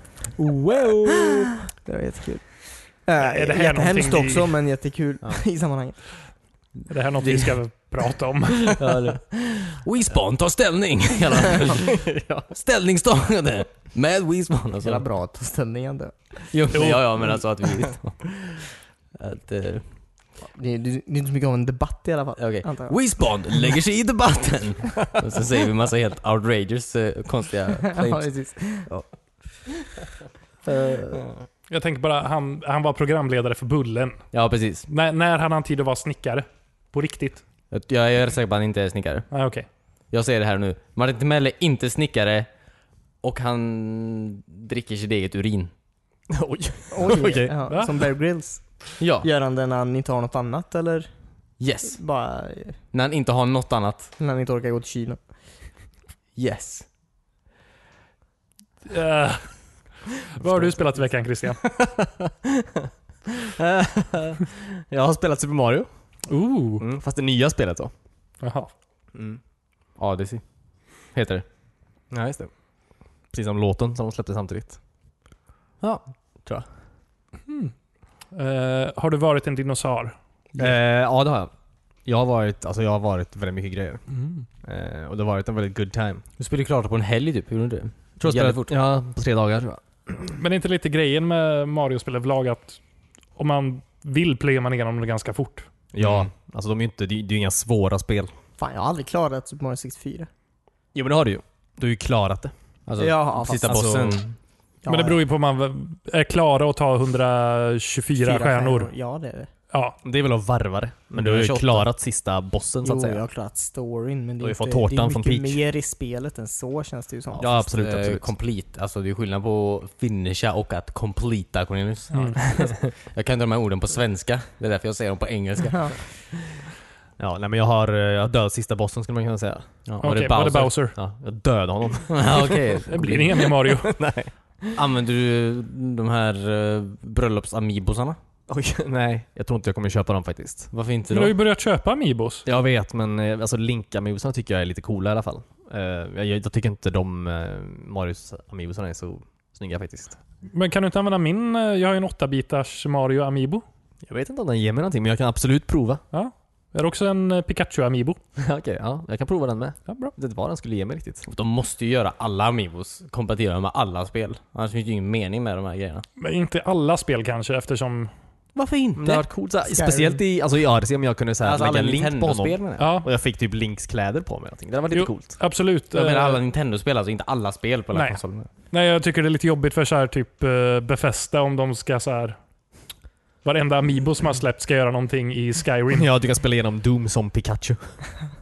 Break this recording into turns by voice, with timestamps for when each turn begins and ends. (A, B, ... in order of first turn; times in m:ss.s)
0:00.4-0:01.4 A
0:01.1-0:06.2 B
0:03.2-0:04.5 C
0:06.9-0:08.9 C
0:07.2-0:07.6 A
0:08.8-0:15.0 A
0:11.9-0:12.5 D
0:14.8-0:16.8 B
0:16.5-0:19.9 A
0:16.7-0:17.0 C
0:20.4-0:23.2 B
0:22.4-0:29.7 A
0:27.8-0:28.9 B
0:30.6-0:31.3 A
0:31.7-0:34.2 C
0:34.3-0:34.9 A
0:34.9-0:37.4 C
0:37.7-0:39.3 A
0:39.3-0:39.7 C
0:40.1-0:42.5 A
0:43.2-0:45.7 A
0:46.3-0:47.9 D
0:46.9-0:51.1 B
0:47.7-0:48.0 C
0:49.0-0:49.3 A
0:51.6-0:52.0 A
0:51.8-0:52.8 B
0:52.9-0:54.1 A
0:54.2-0:55.2 B
0:56.4-0:56.9 A
0:58.8-0:59.7 C
1:00.3-1:01.6 C
1:01.6-1:02.3 D
1:03.5-1:05.9 D
1:06.3-1:06.8 C
1:06.8-1:07.9 D
1:08.4-1:08.7 C
1:09.1-1:09.4 D
1:10.0-1:10.4 A
1:11.1-1:11.4 A
1:12.1-1:12.5 D
1:13.3-1:14.8 D
1:15.8-1:16.6 A
1:17.5-1:17.7 C
1:18.3-1:20.2 C
1:20.6-1:21.5 D
1:22.0-1:24.0 D
1:24.1-1:24.4 C
1:24.6-1:26.2 D
1:26.4-1:28.8 A
1:28.2-1:30.4 D
1:30.4-1:32.8 C
1:33.4-1:35.7 C
1:35.9-1:38.3 D
1:36.0-1:36.3 A
1:38.6-1:40.3 B
1:40.9-1:42.5 D
1:42.9-1:44.3 A
1:43.0-1:44.0 B
1:43.6-1:44.2 D
1:44.8-1:45.2 B
1:44.8-1:48.9 C
1:48.1-1:49.5 B
1:49.7-1:50.0 C
1:50.0-1:53.2 D
1:51.1-1:51.9 A
1:52.8-1:57.6 B
1:54.4-1:55.6 D
1:57.4-1:58.3 D
1:57.6-2:06.1 A
2:02.1-2:02.4 C
2:05.6-2:06.0 B
2:07.2-2:09.7 D
2:09.8-2:10.8 A
2:10.0-2:11.0 C
2:10.9-2:12.6 D
2:12.1-2:13.5 A
2:12.9-2:14.0 C
2:13.8-2:14.8 D
2:14.7-2:18.2 A
2:18.5-2:20.7 D
2:20.7-2:21.3 A
2:21.1-2:22.4 C
2:22.4-2:30.2 D
2:30.4-2:33.6 C
2:34.0-2:36.0 D
2:36.1-2:38.2 C
2:38.4-2:41.2 D
2:39.9-2:40.1 C
2:41.2-2:46.0 A
2:46.2-2:48.1 C
2:48.5-2:49.3 A
2:49.0-2:55.4 D
2:49.7-2:50.2 B
2:51.4-2:52.9 A
2:52.8-2:53.1 C
2:54.9-2:56.4 C
2:55.9-2:58.5 A
2:57.9-3:02.4 C
3:03.4-3:06.1 C
3:05.9-3:08.0 D